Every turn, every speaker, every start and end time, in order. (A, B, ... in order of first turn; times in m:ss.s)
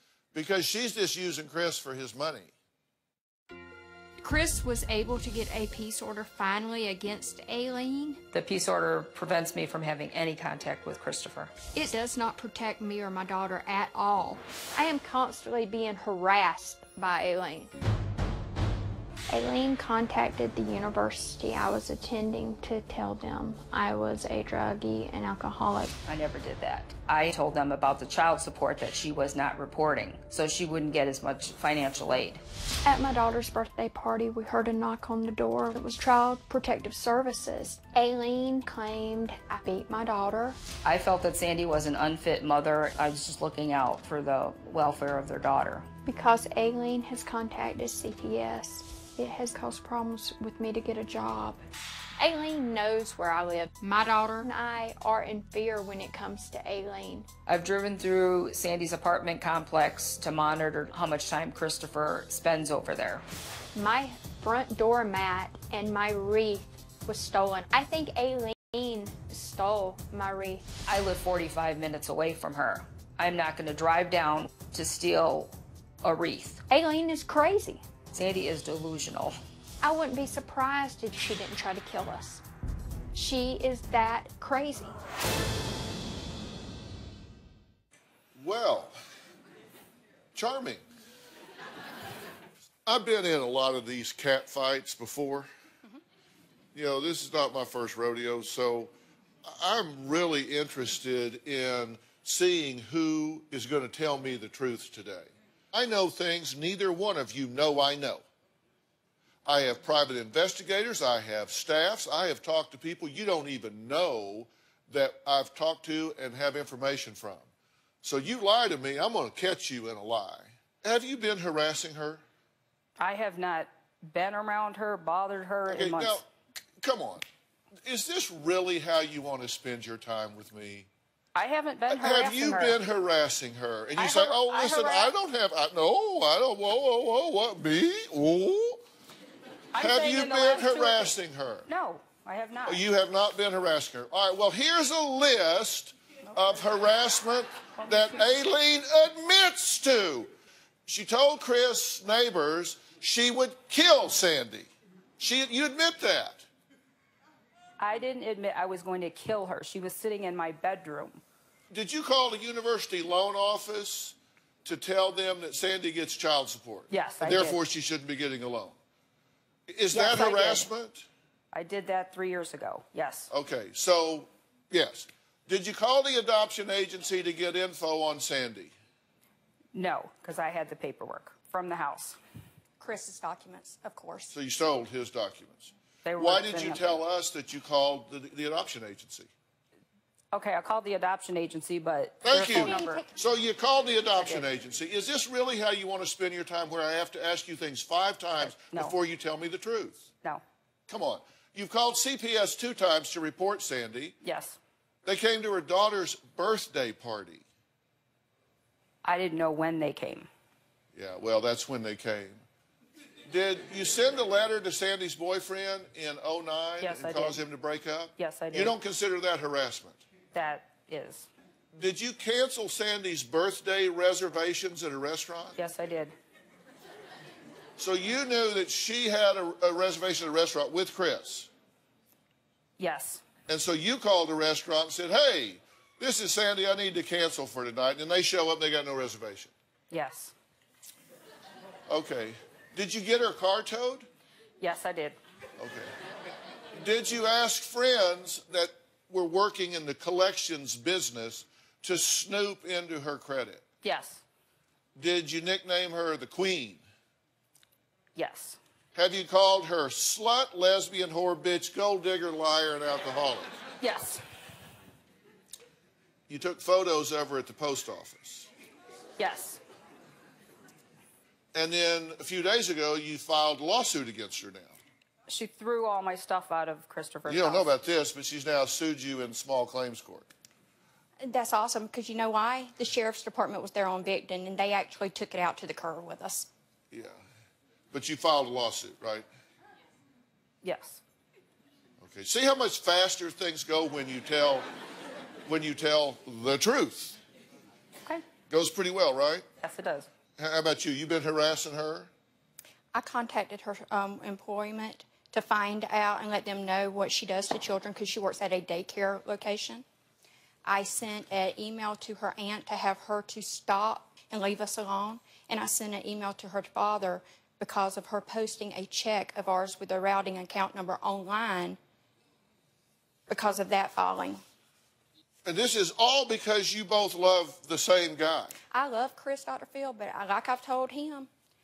0:00.3-0:02.5 A
0:04.2-0:08.2 B
0:08.3-0:11.5 C
0:11.8-0:17.7 B
0:19.3-0:25.9 B
0:26.1-0:32.4 C
0:32.8-0:40.6 B
0:40.8-0:45.9 C
0:46.1-0:51.6 B
0:52.2-0:57.3 B
0:57.5-1:03.2 C
1:03.8-1:10.7 B
1:10.9-1:15.5 C
1:16.0-1:16.6 C
1:16.7-1:17.8 B
1:18.1-1:19.4 C
1:19.8-1:22.4 B
1:23.1-1:24.9 B
1:28.4-1:29.0 A
1:30.3-1:30.8 A
1:32.9-1:35.5 A
1:36.7-1:38.9 A
1:39.4-1:48.2 A
1:49.5-1:57.5 A
1:58.0-2:02.2 A
2:03.0-2:06.2 C
2:05.7-2:06.3 A
2:06.8-2:07.2 A
2:07.8-2:10.9 A
2:11.4-2:12.8 C
2:11.9-2:18.8 A
2:14.0-2:15.1 C
2:19.7-2:21.2 C
2:19.8-2:21.7 A
2:21.7-2:22.8 C
2:22.7-2:30.3 A
2:27.8-2:28.3 C
2:30.9-2:36.5 A
2:37.8-2:41.2 C
2:41.7-2:48.8 A
2:46.9-2:47.6 C
2:49.7-2:51.1 A
2:49.9-2:50.7 C
2:51.5-2:53.3 C
2:53.3-2:58.7 A
2:59.7-3:02.2 C
3:02.8-3:04.3 D
3:04.3-3:09.3 A
3:06.0-3:07.0 C
3:10.3-3:13.0 C
3:12.2-3:20.0 A
3:12.4-3:13.1 D
3:14.2-3:14.5 C
3:18.4-3:19.0 C
3:20.9-3:24.2 A
3:24.2-3:24.6 C
3:25.0-3:27.4 A
3:29.0-3:30.3 C
3:30.9-3:32.4 A
3:33.3-3:40.0 A
3:36.8-3:37.4 C
3:38.2-3:38.7 C
3:40.3-3:41.3 C
3:41.7-3:45.6 A
3:45.6-3:46.2 C
3:47.8-3:51.5 A
3:52.8-3:53.2 C
3:53.5-3:59.5 A
3:59.9-4:00.3 C
4:01.9-4:04.1 A
4:04.6-4:05.2 C
4:05.6-4:05.9 A
4:06.7-4:13.6 A
4:13.8-4:14.2 C
4:15.0-4:16.8 A
4:18.2-4:18.6 C
4:19.0-4:23.5 A
4:23.8-4:24.2 C
4:26.3-4:28.5 A
4:29.2-4:29.6 C
4:31.6-4:34.8 A
4:35.3-4:37.7 C
4:37.3-4:40.3 A
4:41.2-4:46.5 D
4:46.9-4:47.2 A
4:47.9-4:49.3 A
4:50.6-4:51.0 C
4:52.0-4:54.7 A
4:55.5-4:57.2 A
4:58.5-4:59.5 A
4:59.6-5:00.1 C
5:00.4-5:02.1 A
5:02.9-5:09.8 D
5:10.6-5:21.8 D
5:23.3-5:24.4 D
5:25.4-5:28.5 A
5:28.7-5:31.3 D